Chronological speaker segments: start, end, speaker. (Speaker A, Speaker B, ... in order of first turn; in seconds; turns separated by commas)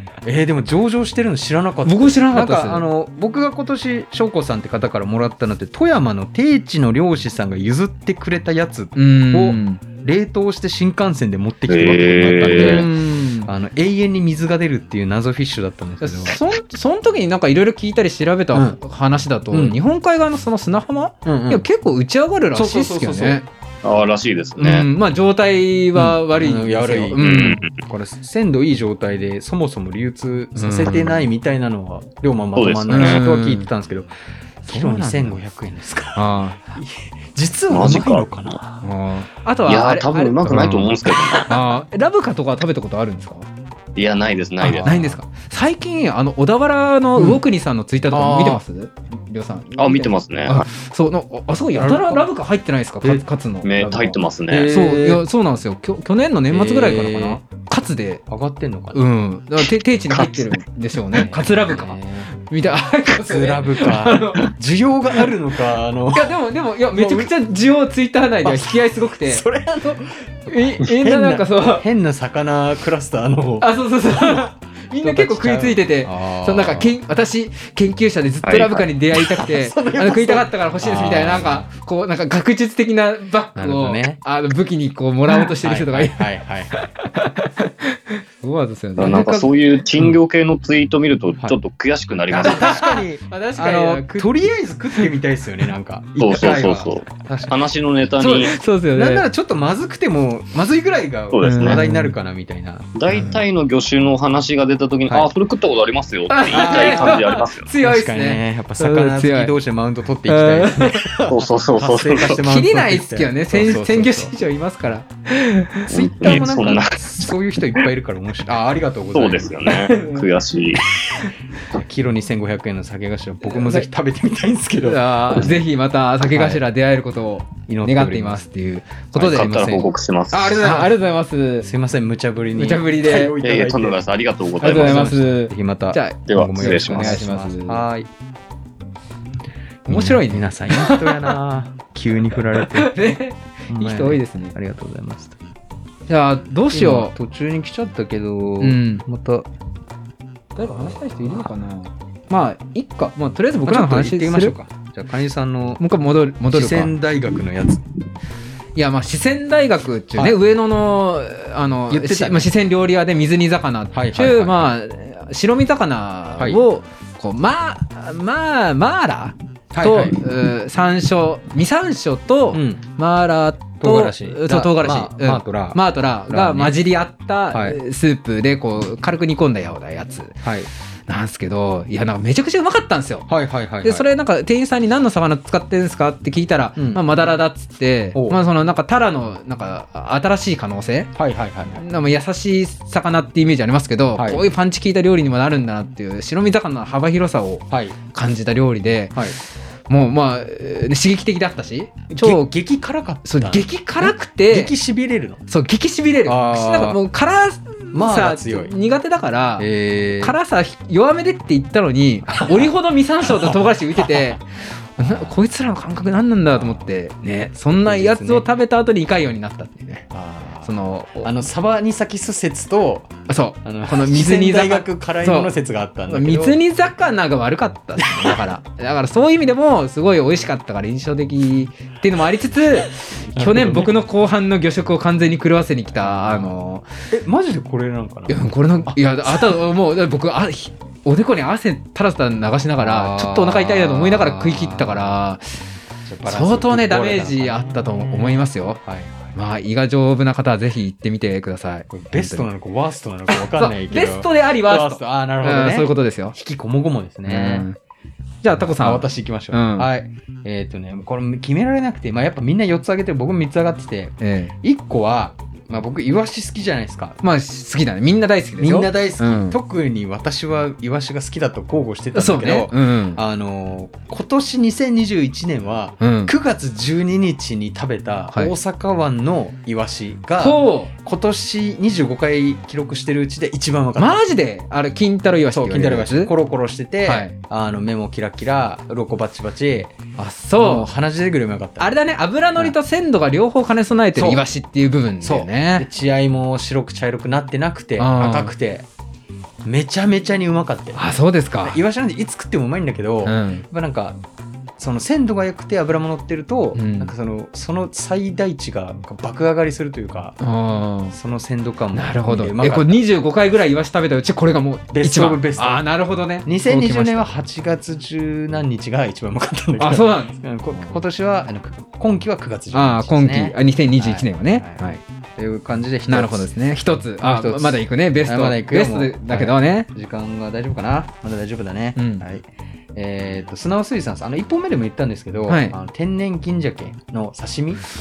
Speaker A: 0.2-12.9, Speaker B: 1.8-2.8, Speaker B: 8.9-9.8, Speaker C: 11.7-12.8, Speaker B: 12.5-13.5, Speaker A: 13.4-16.4, Speaker B: 16.0-23.4, Speaker A: 18.5-18.8, Speaker A: 19.5-19.8, Speaker A: 21.2-21.6, Speaker A: 22.5-23.4, Speaker C: 23.8-24.9, Speaker B: 24.6-27.6, Speaker A: 25.9-34.1, Speaker C: 27.2-27.7, Speaker B: 30.5-31.2, Speaker C: 32.5-33.2, Speaker B: 32.9-33.7, Speaker A: 34.6-38.9, Speaker B: 34.6-35.4, Speaker B: 36.1-36.7, Speaker C: 37.7-38.6, Speaker B: 38.8-43.5, Speaker C: 39.6-41.5, Speaker C: 44.0-45.0, Speaker A: 44.6-45.2, Speaker B: 44.7-54.2, Speaker A: 47.1-47.4, Speaker A: 48.1-48.6, Speaker C: 49.8-50.6, Speaker A: 51.7-52.2, Speaker C: 53.6-54.7, Speaker A: 54.5-55.2, Speaker B: 54.7-58.2, Speaker A: 56.5-57.4, Speaker A: 58.3-59.0, Speaker B: 58.9-64.5, Speaker C: 60.1-60.5, Speaker A: 61.1-62.3, Speaker A: 63.1-66.3, Speaker B: 66.1-69.4, Speaker A: 66.9-67.3, Speaker A: 68.4-77.0, Speaker B: 70.5-71.8, Speaker B: 73.6-89.5, Speaker C: 78.4-78.8, Speaker A: 79.1-81.6, Speaker A: 83.5-84.2, Speaker A: 85.3-86.8, Speaker C: 89.0-92.9, Speaker A: 92.3-97.5, Speaker B: 92.4-95.1, Speaker C: 96.2-98.5, Speaker B: 98.2-99.2, Speaker A: 98.9-102.9, Speaker C: 101.3-101.8, Speaker B: 101.4-102.1, Speaker C: 102.9-107.7, Speaker B: 103.1-103.4, Speaker B: 106.3-109.5, Speaker A: 106.5-114.3, Speaker B: 110.2-111.1, Speaker C: 111.2-112.4, Speaker B: 112.3-116.5, Speaker A: 115.9-119.7, Speaker C: 115.9-117.3, Speaker C: 119.1-120.9, Speaker B: 119.7-120.3, Speaker A: 121.7-125.6, Speaker B: 123.4-123.9, Speaker B: 124.8-129.5, Speaker A: 126.2-126.6, Speaker A: 127.7-128.4, Speaker A: 129.1-130.0, Speaker C: 129.2-130.6, Speaker B: 130.3-131.7, Speaker A: 131.6-134.0, Speaker B: 132.5-133.3, Speaker C: 133.4-135.0, Speaker B: 134.6-137.8, Speaker A: 134.6-138.1, Speaker C: 136.3-137.2, Speaker B: 139.8-141.4, Speaker A: 139.9-143.0, Speaker B: 142.4-144.5, Speaker A: 143.7-145.4, Speaker B: 146.1-147.1, Speaker A: 146.7-149.5, Speaker B: 148.6-149.0, Speaker B: 150.5-154.5, Speaker A: 150.7-151.5, Speaker A: 153.7-155.8, Speaker B: 155.8-156.9, Speaker A: 156.5-157.8, Speaker B: 158.7-180.4, Speaker A: 160.1-160.4, Speaker A: 161.9-162.5, Speaker A: 163.9-164.7, Speaker A: 166.4-166.6, Speaker A: 169.7-170.2, Speaker A: 172.5-172.8, Speaker A: 173.8-176.8, Speaker A: 177.5-177.8, Speaker A: 180.4-180.7, Speaker B: 181.1-183.3, Speaker A: 183.3-184.1, Speaker B: 183.8-191.1, Speaker A: 186.8-187.0, Speaker A: 188.1-188.4, Speaker A: 191.2-191.8, Speaker B: 191.8-202.5, Speaker A: 194.2-194.4, Speaker A: 197.7-198.0, Speaker A: 202.1-205.4, Speaker B: 203.2-204.7, Speaker B: 205.5-220.1, Speaker A: 206.2-207.0, Speaker A: 207.9-208.8, Speaker A: 209.6-210.4, Speaker A: 212.3-212.7, Speaker A: 213.2-214.3, Speaker A: 215.0-215.3, Speaker A: 216.5-216.9, Speaker A: 217.8-218.5, Speaker A: 220.1-226.6, Speaker B: 220.6-221.3, Speaker B: 223.3-225.5, Speaker B: 226.1-236.9, Speaker A: 228.0-228.4, Speaker A: 233.3-233.9, Speaker A: 236.0-236.5, Speaker A: 237.1-239.0, Speaker B: 238.3-245.4, Speaker A: 242.8-245.1, Speaker A: 246.0-249.4, Speaker B: 246.3-248.8, Speaker B: 249.3-252.5, Speaker A: 251.9-257.7, Speaker B: 253.3-256.3, Speaker B: 257.2-257.8, Speaker B: 258.4-259.9, Speaker A: 258.6-267.2, Speaker B: 264.2-264.5, Speaker B: 267.2-269.6, Speaker A: 268.6-284.2, Speaker B: 272.1-273.2, Speaker B: 276.0-276.3, Speaker B: 280.4-280.9, Speaker B: 284.0-286.3, Speaker A: 285.5-289.9, Speaker B: 287.0-287.3, Speaker B: 290.2-290.9, Speaker A: 290.6-291.9, Speaker B: 291.8-295.9, Speaker A: 294.1-294.4, Speaker A: 295.2-298.9, Speaker B: 298.0-298.5, Speaker A: 299.6-301.1, Speaker B: 300.9-301.8, Speaker A: 301.6-304.2, Speaker B: 303.2-303.6, Speaker A: 304.8-310.4, Speaker B: 306.7-307.1, Speaker B: 310.4-311.1, Speaker A: 311.1-313.0, Speaker B: 311.9-317.3, Speaker A: 314.9-315.8, Speaker A: 316.4-326.5, Speaker B: 319.8-321.0, Speaker B: 322.7-325.0, Speaker B: 326.1-329.9, Speaker A: 327.2-337.8, Speaker B: 331.9-332.2, Speaker B: 335.5-335.7